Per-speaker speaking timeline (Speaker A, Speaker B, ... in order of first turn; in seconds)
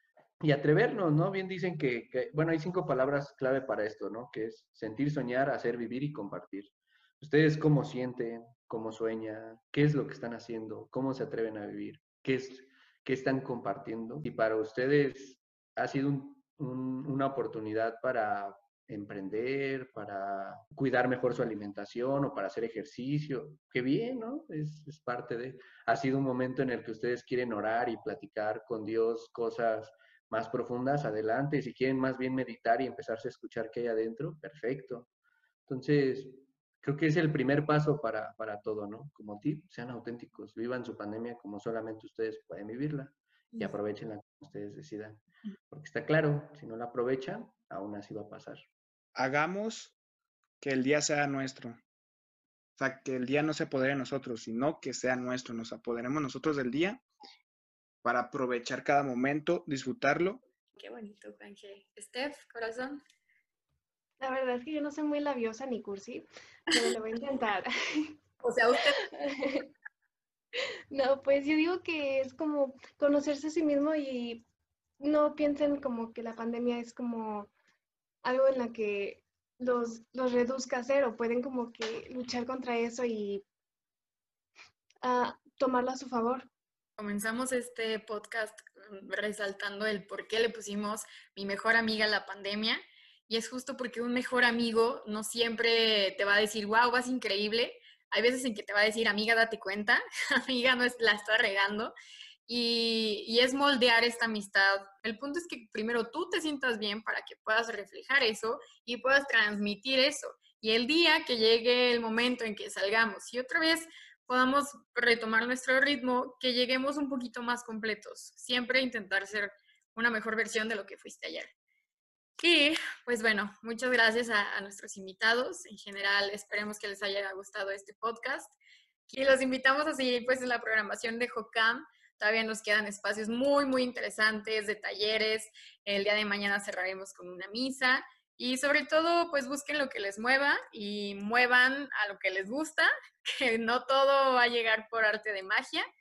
Speaker A: 0.4-35.1, 35.7-48.6
Speaker B: 49.1-49.9, 50.6-51.8, 52.8-57.0, 58.0-60.4
Speaker C: 60.8-63.0, 68.4-69.0, 87.0-101.9, 102.5-121.5, 122.4-128.6, 129.1-145.8
Speaker D: 64.2-68.1, 69.1-69.7, 70.9-74.4, 75.0-77.5, 78.2-83.4, 85.0-86.5